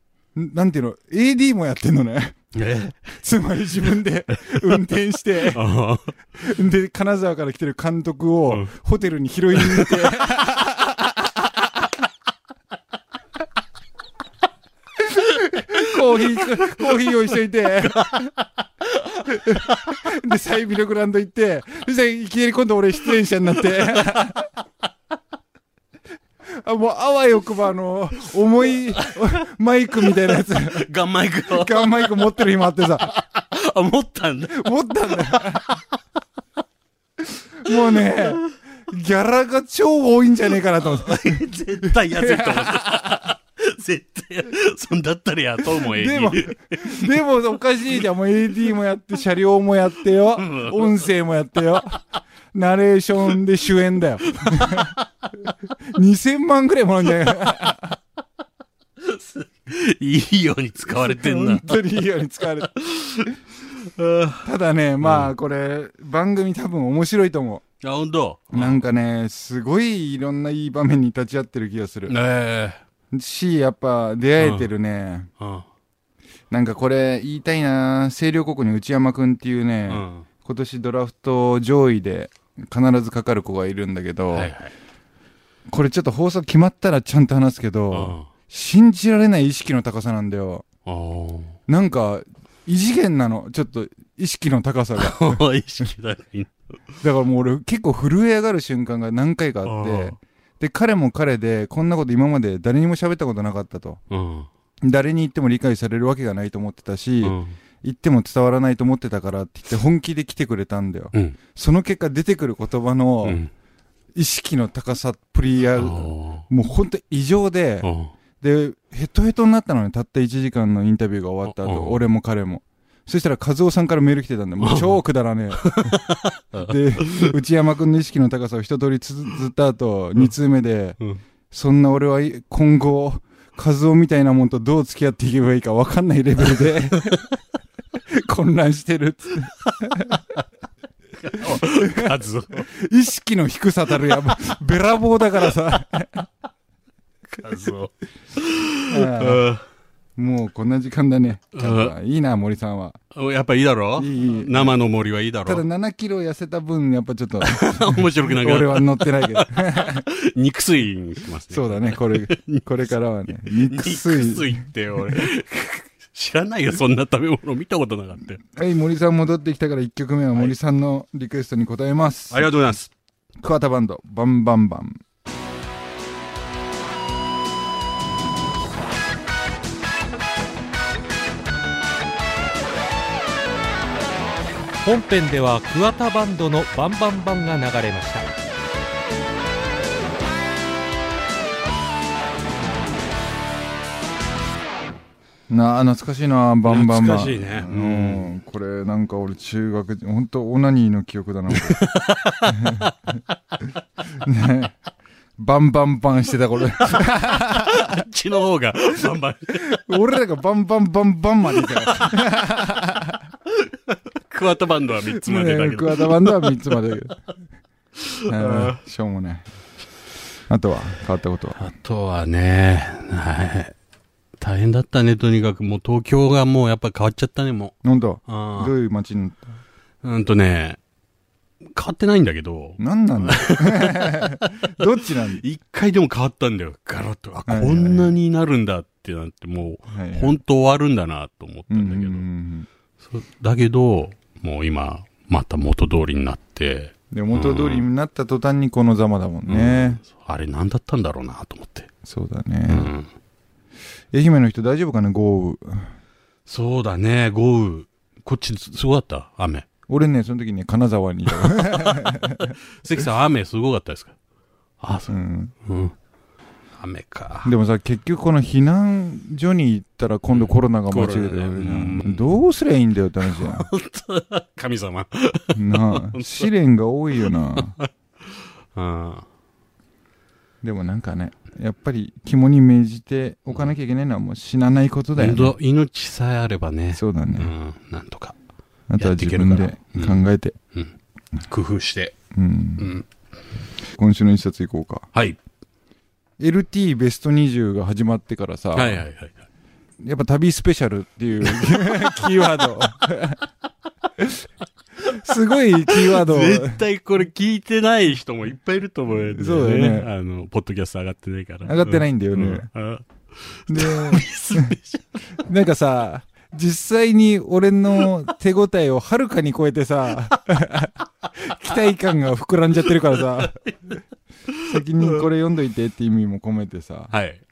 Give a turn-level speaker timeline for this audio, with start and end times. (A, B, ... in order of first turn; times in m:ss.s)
0:00.3-0:02.5 A
0:02.5-0:03.0 B
0:03.0-0:05.7 A
0:05.5-0:06.1 B
0:06.4-0:11.9 A
0:09.6-0:09.9 B
0:15.0-0:18.3 A
0:17.9-0:18.3 B
0:19.2-0:24.5 A
0:19.7-0:19.9 B
0:26.5-0:30.9 A
0:30.7-0:32.2 B
0:31.5-0:33.1 A
0:33.1-0:35.6 B
0:34.5-0:35.8 A
0:37.6-0:43.3 A
0:40.8-0:47.1 B
0:45.7-0:54.9 A
0:50.4-0:51.0 B
0:54.4-0:55.0 B
0:55.9-0:58.0 A
0:59.0-1:01.8 B
1:00.9-1:02.7 A
1:02.7-1:04.4 B
1:04.4-1:07.6 A
1:05.0-1:05.3 B
1:07.8-1:08.8 B
1:08.5-1:12.1 A
1:12.1-1:12.8 B
1:13.1-1:15.3 A
1:14.4-1:14.7 B
1:15.4-1:15.7 B
1:16.5-1:24.5 A
1:19.9-1:20.2 B
1:24.3-1:24.7 B
1:25.7-1:30.6 A
1:27.9-1:28.3 B
1:30.8-1:31.6 B
1:31.7-1:35.4 A
1:35.0-1:36.6 B
1:37.0-1:44.0 A
1:39.6-1:40.2 B
1:44.1-1:44.5 B
1:44.8-1:53.4 A
1:47.2-1:47.6 B
1:53.2-1:53.5 B
1:54.1-1:57.9 A
1:55.7-1:56.4 B
1:57.8-1:58.1 B
1:58.4-2:06.0 A
2:01.4-2:02.0 B
2:04.6-2:05.0 B
2:05.6-2:07.3 B
2:06.6-2:11.0 A
2:11.5-2:17.2 A
2:18.1-2:20.2 A
2:21.2-2:22.7 B
2:21.5-2:22.2 A
2:22.7-2:26.3 A
2:27.3-2:29.6 B
2:28.9-2:29.4 A
2:30.2-2:33.0 A
2:31.5-2:31.9 B
2:33.1-2:35.6 B
2:34.0-2:34.7 A
2:35.4-2:40.0 A
2:37.4-2:42.7 B
2:41.5-2:45.3 A
2:43.3-2:48.4 B
2:48.5-2:52.5 A
2:52.3-2:52.9 B
2:53.4-2:55.0 A
3:04.8-3:08.3 C
3:15.5-3:21.8 A
3:16.6-3:18.3 B
3:21.5-3:22.9 B
3:22.5-3:22.9 A
3:24.2-3:24.8 A
3:25.4-3:28.0 A
3:26.9-3:29.8 B
3:29.7-3:33.2 A
3:31.6-3:32.2 B
3:33.5-3:36.7 B
3:35.1-3:37.2 A
3:38.2-3:38.8 B
3:38.3-3:39.4 A
3:40.5-3:41.6 A
3:41.6-3:43.7 B
3:44.4-3:47.8 B
3:47.8-3:49.6 A
3:48.3-3:48.7 B
3:50.0-3:50.8 B
3:51.7-3:54.6 B
3:52.8-3:55.4 A
3:55.4-4:02.3 B
3:57.5-3:58.1 A
3:59.9-4:00.4 A
4:01.7-4:02.7 A
4:03.0-4:07.8 B
4:07.1-4:10.0 A
4:09.5-4:11.9 B
4:12.0-4:12.9 A
4:12.7-4:13.1 B
4:14.1-4:15.9 A
4:16.5-4:19.6 B
4:19.9-4:22.5 A
4:22.8-4:24.1 B
4:24.8-4:25.9 B
4:25.1-4:25.5 A
4:26.8-4:27.5 B
4:27.4-4:33.7 A
4:30.3-4:32.3 B
4:33.3-4:36.5 B
4:35.5-4:37.8 A
4:37.6-4:37.9 B
4:38.7-4:39.2 B
4:40.6-4:45.5 A
4:45.2-4:48.4 B
4:46.9-4:47.5 A
4:48.9-4:50.5 A
4:49.0-4:50.9 B
4:51.5-4:52.2 B
4:52.3-4:52.9 A
4:52.8-4:53.0 B
4:53.9-4:55.1 A
4:56.4-4:59.0 A
4:58.7-4:59.4 B
5:00.0-5:03.4 A
5:01.4-5:02.1 B
5:05.1-5:06.8 A
5:05.8-5:15.3 B
5:09.3-5:10.1 A
5:11.6-5:12.7 A
5:13.7-5:14.7 A
5:15.4-5:23.6 A
5:23.4-5:23.8 B
5:24.6-5:27.1 A
5:27.1-5:27.4 B